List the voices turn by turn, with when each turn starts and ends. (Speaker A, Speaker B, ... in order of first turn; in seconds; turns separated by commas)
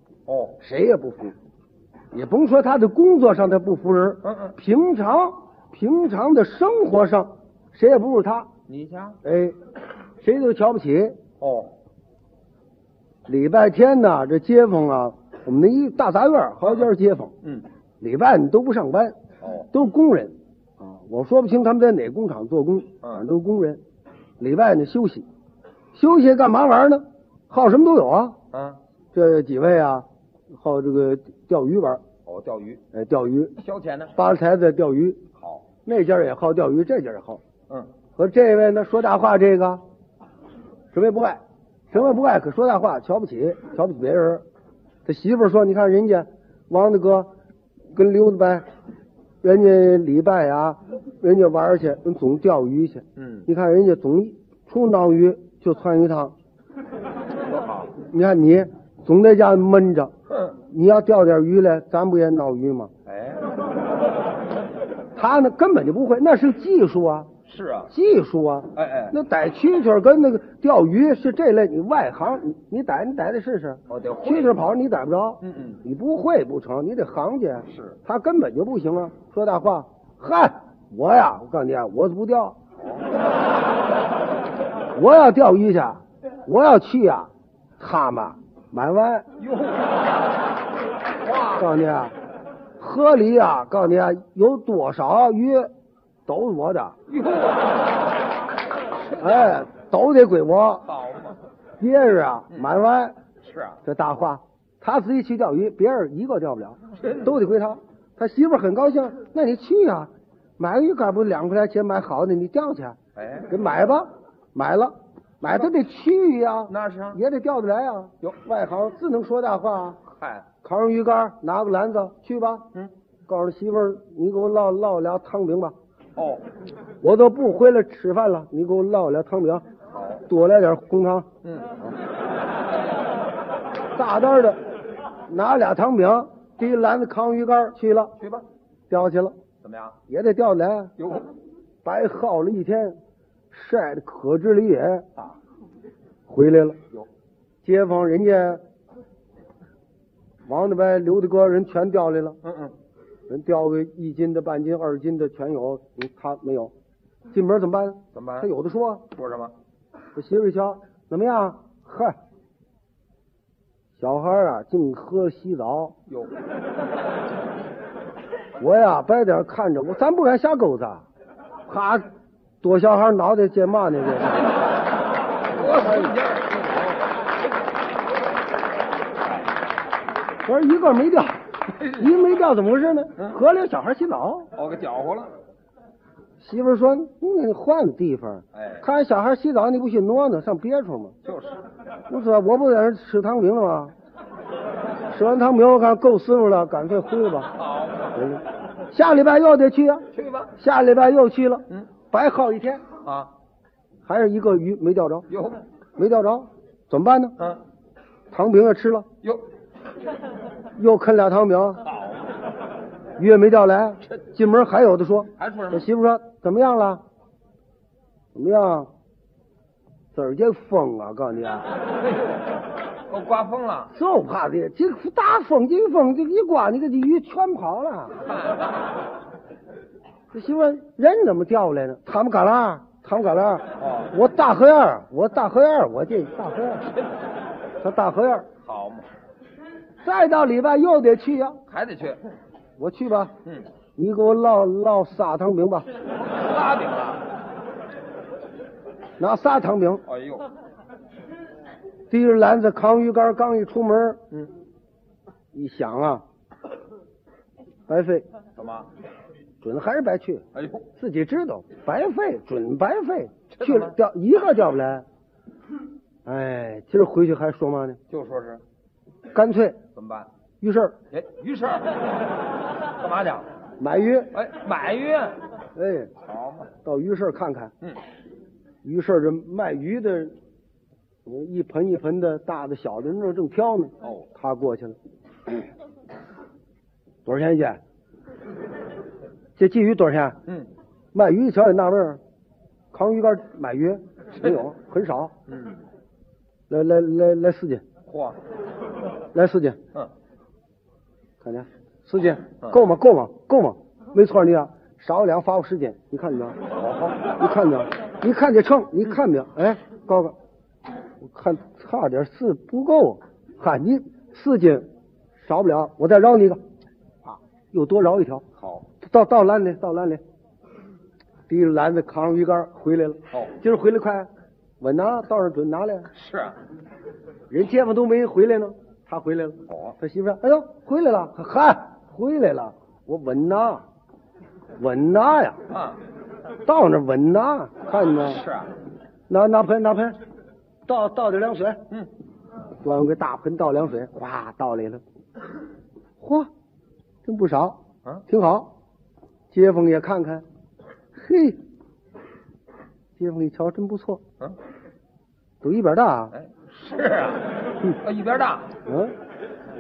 Speaker A: 0.3-0.6, Speaker B: 0.6-1.4, Speaker B: 2.1-8.5, Speaker A: 4.3-4.5, Speaker A: 8.7-9.2, Speaker B: 9.2-9.6, Speaker B: 10.2-11.2, Speaker A: 11.4-11.7, Speaker B: 13.3-17.3, Speaker A: 16.6-16.9, Speaker B: 18.0-19.2, Speaker A: 19.4-19.7, Speaker B: 19.7-23.8, Speaker B: 24.4-25.3, Speaker B: 25.9-28.4, Speaker A: 28.5-28.8, Speaker B: 29.1-32.0, Speaker A: 32.3-32.8, Speaker B: 32.9-33.6, Speaker A: 33.6-34.1, Speaker B: 34.1-35.2, Speaker A: 35.4-35.7, Speaker B: 35.9-37.4, Speaker B: 38.2-39.8, Speaker B: 40.9-41.4, Speaker B: 41.9-44.4, Speaker B: 45.0-47.3, Speaker B: 47.9-48.7, Speaker B: 49.4-56.4, Speaker A: 53.2-53.5, Speaker A: 57.5-57.9, Speaker B: 58.0-60.1, Speaker B: 60.7-62.9, Speaker A: 63.1-63.4, Speaker B: 65.2-67.3, Speaker A: 67.5-67.9, Speaker B: 67.9-82.6, Speaker A: 68.8-69.2, Speaker A: 73.9-74.6, Speaker A: 75.4-75.8, Speaker A: 77.7-78.0, Speaker B: 84.9-89.3, Speaker A: 89.4-90.1, Speaker A: 91.3-91.6, Speaker B: 91.5-92.2, Speaker B: 92.8-95.7, Speaker B: 96.3-97.0, Speaker A: 97.1-97.9, Speaker A: 99.0-99.7, Speaker B: 99.2-100.9, Speaker A: 100.9-101.4, Speaker B: 101.8-103.2, Speaker A: 103.4-103.8, Speaker B: 103.8-113.0, Speaker A: 107.0-107.3, Speaker A: 113.2-113.5, Speaker B: 113.5-120.0, Speaker A: 116.7-117.2, Speaker A: 120.2-120.5, Speaker B: 120.6-122.7, Speaker B: 123.3-125.8, Speaker A: 126.2-126.4, Speaker B: 127.0-129.6, Speaker A: 129.9-130.2, Speaker B: 130.3-131.3, Speaker A: 131.4-131.8, Speaker B: 133.9-134.6, Speaker B: 135.3-138.1, Speaker A: 138.2-138.4, Speaker B: 138.9-139.4, Speaker A: 139.6-140.0, Speaker B: 140.1-140.9, Speaker A: 141.0-141.3, Speaker B: 141.8-143.0, Speaker B: 143.5-145.1, Speaker B: 146.3-146.8, Speaker B: 147.6-148.6, Speaker B: 150.5-152.4, Speaker A: 152.4-152.7, Speaker B: 153.3-156.7, Speaker B: 157.3-159.1, Speaker A: 158.1-158.5, Speaker A: 159.1-159.5, Speaker B: 160.2-162.2, Speaker B: 164.0-165.9, Speaker B: 168.6-171.0, Speaker B: 171.7-172.1, Speaker B: 172.6-174.6, Speaker A: 175.5-176.7, Speaker B: 175.6-176.1, Speaker B: 180.4-184.5, Speaker A: 181.8-182.1, Speaker A: 184.5-185.3, Speaker B: 186.4-191.2, Speaker A: 188.6-188.8, Speaker A: 191.2-191.6, Speaker B: 192.1-193.9, Speaker B: 195.1-197.5, Speaker A: 197.6-198.2, Speaker B: 198.1-202.8, Speaker A: 200.1-200.5, Speaker A: 203.0-203.3, Speaker B: 204.1-205.3, Speaker A: 205.3-205.6, Speaker B: 206.0-207.4, Speaker B: 208.3-209.1, Speaker B: 210.8-211.8, Speaker A: 211.9-212.2, Speaker B: 213.2-217.0, Speaker A: 215.4-215.9, Speaker B: 218.3-218.9, Speaker B: 220.1-221.7, Speaker A: 223.1-223.9, Speaker B: 223.9-228.2, Speaker B: 230.3-236.9, Speaker A: 233.8-234.1, Speaker B: 237.8-238.5, Speaker A: 238.6-239.1, Speaker B: 240.0-241.6, Speaker A: 241.7-242.2, Speaker B: 242.8-243.3, Speaker B: 244.0-245.9, Speaker A: 246.3-247.2, Speaker B: 249.2-250.0, Speaker A: 250.1-250.5, Speaker B: 252.1-254.2, Speaker B: 255.5-256.2, Speaker B: 257.9-258.3, Speaker A: 258.6-258.9, Speaker B: 259.6-260.4, Speaker A: 260.5-260.9, Speaker B: 261.0-265.1, Speaker A: 263.6-263.9, Speaker B: 266.2-268.0, Speaker A: 268.1-268.6, Speaker B: 269.3-269.8, Speaker A: 269.9-270.3, Speaker B: 270.6-271.0, Speaker A: 271.1-272.1, Speaker A: 273.0-273.5, Speaker B: 273.8-274.3, Speaker A: 274.3-275.4, Speaker B: 275.8-276.1, Speaker A: 276.2-276.7, Speaker B: 276.8-277.7, Speaker B: 278.8-280.4, Speaker B: 281.3-285.0, Speaker B: 287.2-287.8, Speaker B: 289.6-290.4, Speaker B: 291.1-292.2, Speaker B: 292.9-295.3, Speaker A: 295.5-295.8, Speaker B: 296.7-297.8, Speaker A: 298.1-298.4, Speaker B: 299.3-299.8, Speaker B: 301.4-306.6, Speaker A: 306.7-307.4, Speaker B: 307.4-310.4, Speaker B: 311.2-314.9, Speaker B: 315.4-316.6, Speaker B: 317.3-318.4, Speaker A: 318.6-318.9, Speaker B: 319.0-320.2, Speaker B: 321.5-324.3, Speaker B: 324.8-326.1, Speaker A: 326.1-326.6, Speaker B: 327.5-333.8, Speaker A: 329.7-329.9, Speaker B: 334.8-335.6, Speaker A: 335.7-336.0, Speaker B: 336.6-338.4, Speaker A: 338.3-338.7, Speaker B: 339.3-340.2, Speaker B: 340.9-341.8, Speaker B: 342.8-345.0, Speaker B: 346.2-346.5, Speaker B: 347.2-348.7, Speaker B: 349.5-350.4, Speaker B: 351.1-351.6, Speaker B: 353.2-354.2, Speaker B: 355.6-356.3, Speaker A: 356.3-358.7, Speaker B: 358.9-359.1